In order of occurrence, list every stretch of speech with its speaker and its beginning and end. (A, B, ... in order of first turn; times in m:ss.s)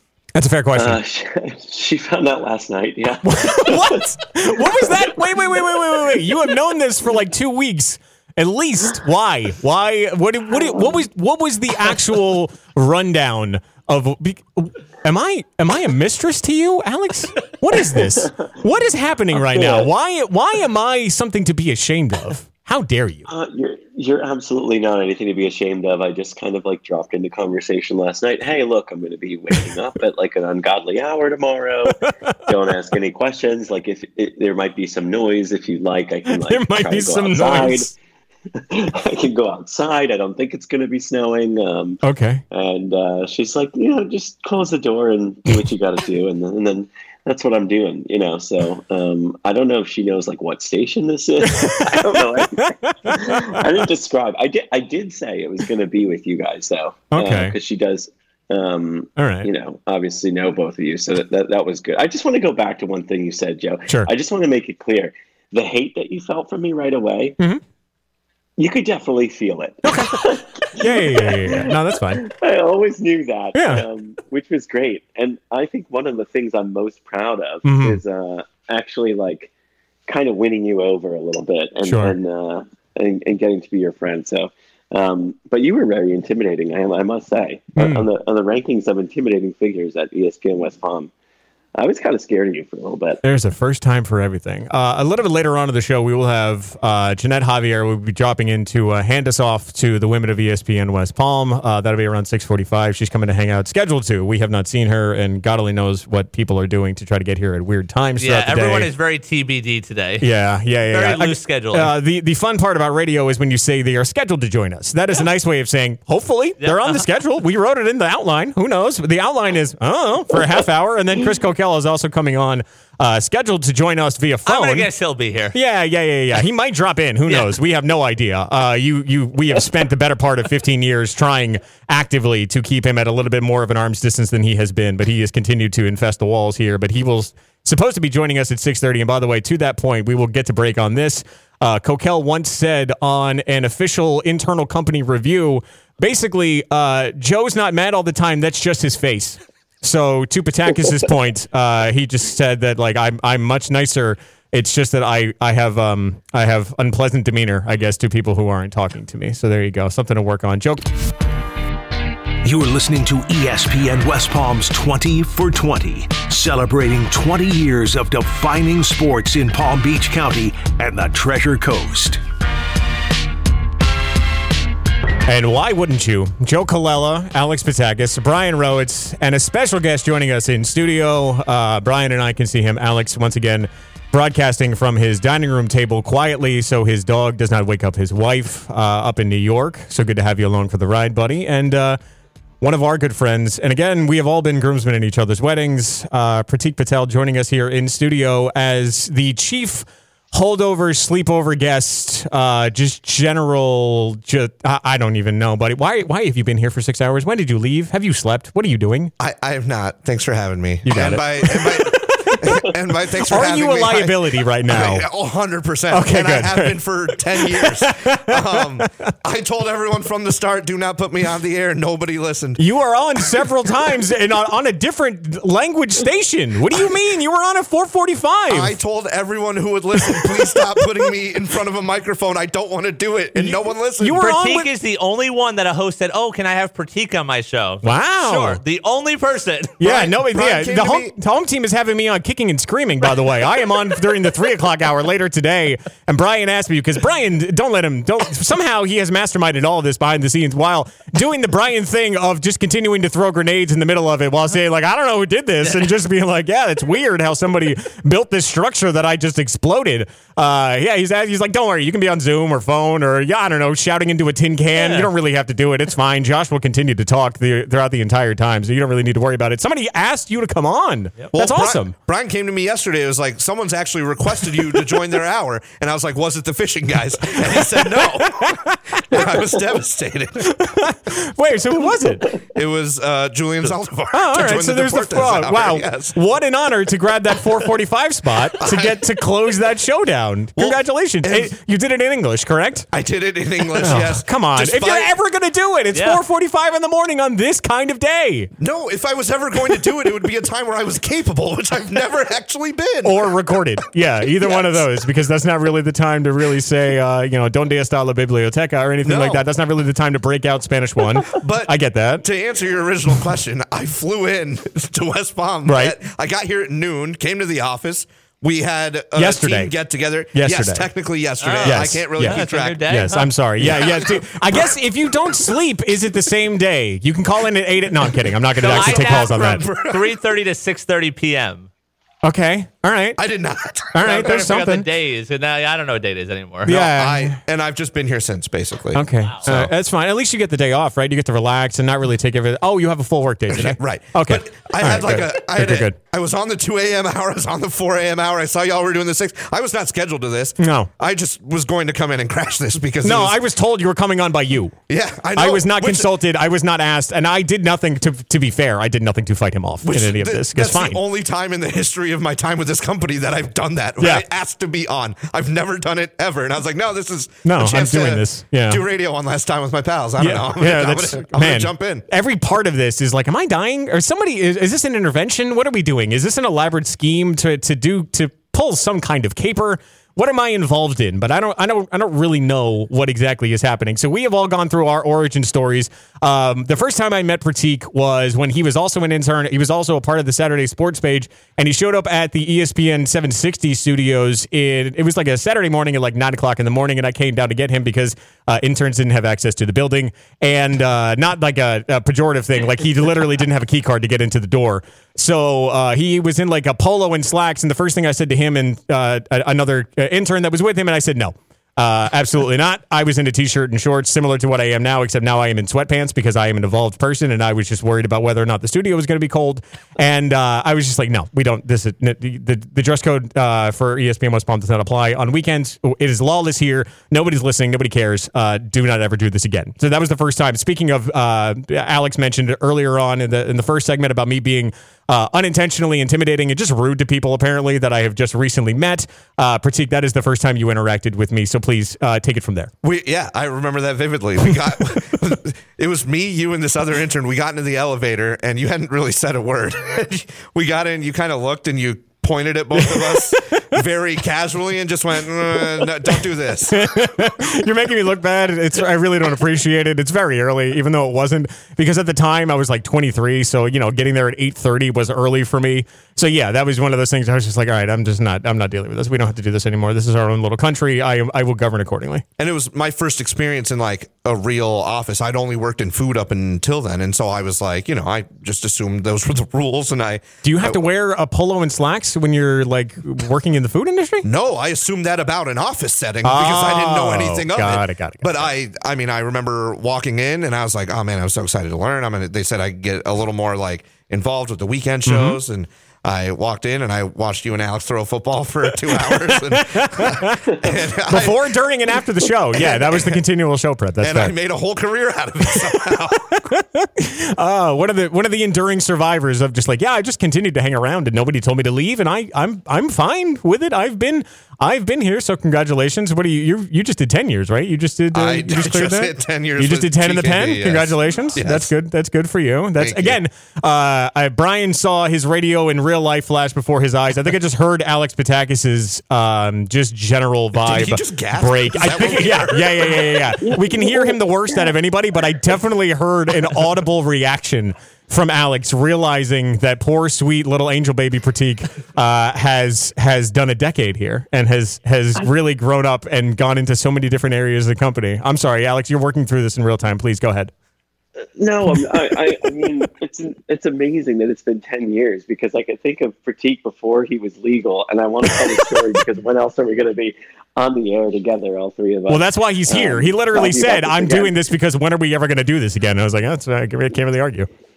0:00.4-0:01.0 A
0:00.7-0:04.1 B
0:03.2-0:23.2 A
0:04.6-0:05.0 B
0:10.6-0:10.9 B
0:17.8-0:18.5 B
0:19.3-0:19.9 B
0:23.3-0:37.9 B
0:32.1-0:32.5 A
0:36.3-0:37.9 A
0:38.6-1:07.4 B
0:42.0-0:42.4 A
0:51.6-0:53.8 A
0:57.1-0:57.5 A
0:59.2-0:59.5 A
1:08.6-1:19.5 B
1:09.8-1:12.2 A
1:13.5-1:13.8 A
1:17.6-1:18.0 A
1:20.1-1:31.1 B
1:21.8-1:22.2 A
1:27.8-1:28.0 A
1:31.8-1:33.2 B
1:33.2-1:48.9 A
1:48.2-1:50.3 C
1:50.2-2:04.9 A
1:50.9-1:51.9 C
1:56.6-1:57.0 C
2:04.4-2:05.5 C
2:05.5-2:40.8 A
2:42.4-2:52.2 D
2:55.2-3:12.0 A
3:12.6-3:29.1 A
3:29.2-3:42.6 E
3:30.8-3:32.6 A
3:33.2-3:35.0 A
3:35.9-3:38.9 A
3:42.6-3:48.8 A
3:48.5-3:54.2 E
3:50.0-3:51.0 A
3:53.3-3:54.7 A
3:54.2-3:59.8 C
3:57.8-3:58.6 A
3:59.8-4:31.9 A
3:59.8-4:01.1 E
4:24.8-4:25.1 C
4:31.3-4:40.6 E
4:37.4-4:39.2 A
4:40.4-4:42.3 A
4:42.5-4:46.2 E
4:43.6-4:52.9 A
4:48.5-4:49.0 E
4:50.6-4:51.5 E
4:52.9-4:55.1 E
4:53.7-4:58.5 A
4:55.9-4:56.2 C
4:58.6-5:03.3 E
5:03.0-5:12.2 A
5:04.3-5:04.9 E
5:09.0-5:09.4 E
5:11.3-5:22.9 E
5:15.6-5:16.0 A
5:19.1-5:19.7 A
5:20.3-5:20.9 A
5:21.4-5:23.3 C
5:21.6-5:29.6 A
5:23.6-5:24.7 E
5:28.6-5:30.1 E
5:28.6-5:31.7 C
5:32.2-5:33.2 A
5:33.2-5:34.6 E
5:33.9-5:34.8 A
5:34.0-5:36.7 C
5:36.6-5:37.4 A
5:36.6-5:39.7 E
5:38.9-5:46.0 A
5:43.5-5:53.4 E
5:50.6-5:50.9 A
5:53.0-5:54.8 A
5:54.9-5:56.1 E
5:55.3-6:01.0 A
5:59.8-6:12.0 E
6:04.0-6:04.2 A
6:07.4-6:08.8 A
6:10.2-7:22.7 A
7:22.8-7:37.0 E
7:32.7-7:33.6 A
7:35.8-7:52.2 A
7:52.4-8:00.8 E
8:00.4-8:04.2 A
8:04.2-8:22.0 E
8:06.2-8:08.5 A
8:15.0-8:15.4 A
8:18.8-8:20.4 A
8:21.1-8:24.3 A
8:22.5-8:23.2 E
8:24.0-8:26.4 E
8:25.4-8:25.8 A
8:26.4-9:10.5 A
8:38.1-8:41.7 E
8:42.8-8:43.2 E
8:50.6-8:53.3 E
8:53.4-8:54.7 B
9:11.4-9:24.3 B
9:22.1-9:27.5 A